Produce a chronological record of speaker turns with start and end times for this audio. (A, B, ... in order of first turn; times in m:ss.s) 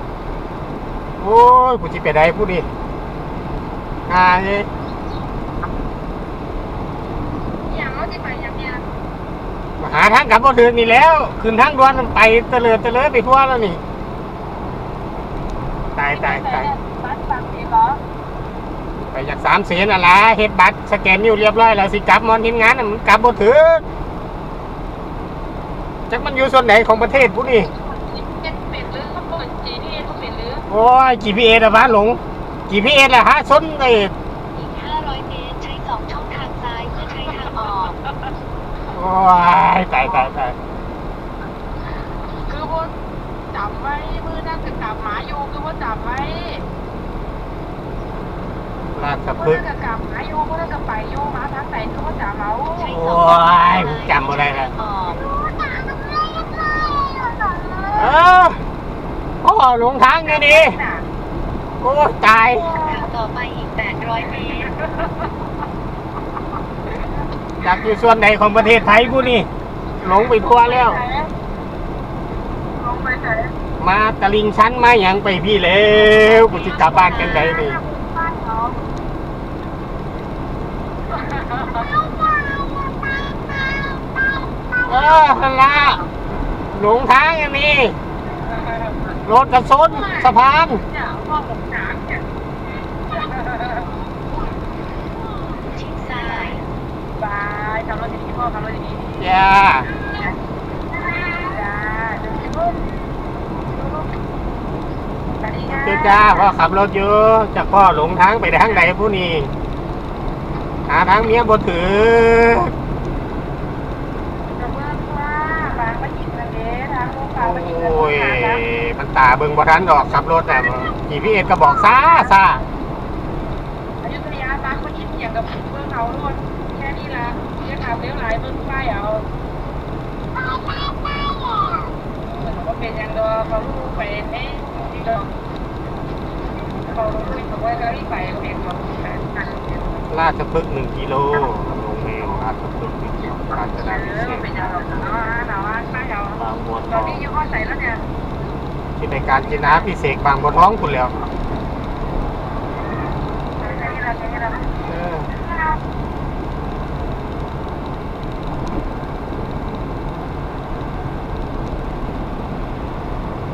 0:01.2-0:02.6 A
0:04.1-0:04.7 A
0:07.7-0:08.8 B
0:09.8-0:13.8 A
0:15.9-0:16.7 A
0:16.1-0:18.0 B
0:19.1-0:23.8 A
0:26.1-0:27.7 A
0:28.0-0:30.6 B
0:30.7-0:34.1 A
0:34.5-0:38.0 C
0:38.9-0:40.5 A
0:42.4-0:42.9 B
0:43.5-0:46.6 B
0:48.9-0:49.6 A
0:49.3-0:52.9 B
0:52.8-0:55.2 C
0:52.9-0:54.7 A
0:55.2-0:58.1 B
0:58.0-0:58.6 A
0:59.4-1:00.8 A
1:00.2-1:01.0 B
1:01.8-1:02.7 A
1:02.6-1:02.9 B
1:02.7-1:04.7 C
1:04.6-1:05.3 B
1:07.6-1:09.5 A
1:08.8-1:09.2 B
1:10.0-1:11.0 A
1:10.2-1:11.3 B
1:12.8-1:13.5 B
1:13.8-1:17.8 A
1:16.1-1:17.5 C
1:16.3-1:18.8 B
1:21.2-1:22.1 B
1:24.8-1:26.0 A
1:26.7-1:28.0 A
1:28.5-1:29.2 B
1:29.2-1:30.8 A
1:29.9-1:30.3 B
1:30.9-1:32.2 B
1:33.0-1:34.0 B
1:35.6-1:36.6 C
1:36.3-1:36.6 B
1:37.2-1:39.2 B
1:39.2-1:39.9 A
1:41.0-1:43.0 B
1:43.6-1:44.1 B
1:45.4-1:46.5 B
1:45.7-1:49.5 A
1:50.9-1:52.7 A
1:54.5-1:58.6 B
1:57.4-2:02.6 A
2:04.0-2:09.2 B
2:12.3-2:15.3 B
2:16.8-2:20.0 B
2:20.1-2:25.0 A
2:23.8-2:28.0 B
2:26.4-2:27.3 A
2:29.0-2:31.1 A
2:33.6-2:34.7 B
2:34.8-2:35.3 A